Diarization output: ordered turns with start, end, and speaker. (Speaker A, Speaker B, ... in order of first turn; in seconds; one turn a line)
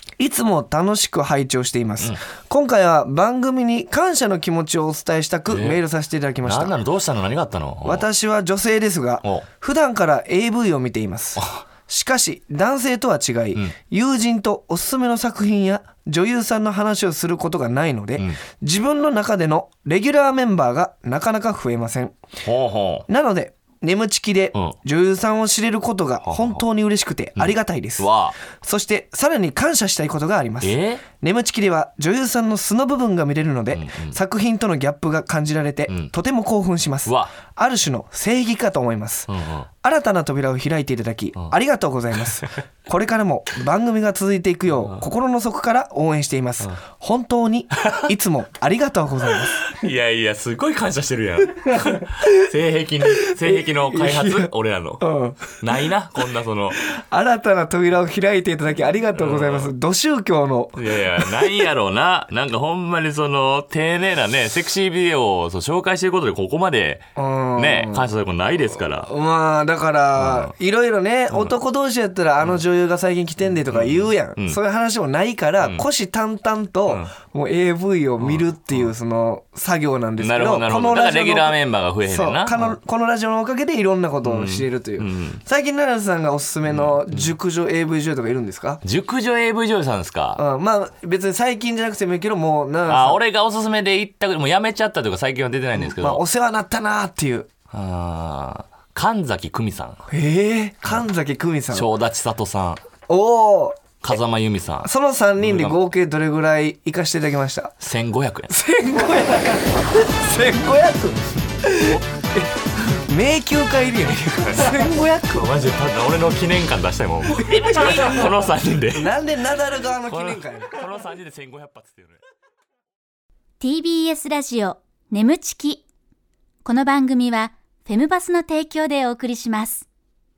Speaker A: 0.2-6.8
Speaker B: 5.5-5.8
Speaker B: 6.5-8.1
Speaker A: 7.8-22.1
Speaker B: 11.4-11.6
Speaker B: 22.4-23.1
Speaker A: 23.1-39.3
Speaker B: 26.3-26.6
Speaker B: 27.4-28.4
Speaker B: 30.6-31.0
Speaker B: 33.7-34.2
Speaker B: 39.3-39.7
Speaker A: 39.8-49.6
Speaker B: 47.8-48.1
Speaker B: 49.4-56.8
Speaker A: 53.3-55.5
Speaker A: 56.8-61.5
Speaker B: 59.1-59.7
Speaker B: 60.8-69.1
Speaker A: 67.2-68.1
Speaker A: 69.0-88.8
Speaker B: 70.2-70.5
Speaker B: 73.7-74.6
Speaker B: 78.2-78.9
Speaker B: 80.2-82.8
Speaker B: 84.2-85.4
Speaker B: 86.7-87.3
Speaker B: 88.8-90.4
Speaker A: 90.4-93.2
Speaker B: 92.9-96.2
Speaker A: 95.8-97.5
Speaker B: 97.7-100.0
Speaker A: 100.1-101.9
Speaker B: 101.7-102.8
Speaker A: 103.1-103.8
Speaker B: 104.0-105.8
Speaker A: 104.8-107.7
Speaker B: 107.8-108.5
Speaker A: 108.5-115.5
Speaker B: 114.4-114.8
Speaker B: 115.3-119.1
Speaker A: 117.4-118.3
Speaker A: 118.9-120.8
Speaker B: 120.1-122.2
Speaker C: 123.6-125.8
Speaker C: 126.7-129.8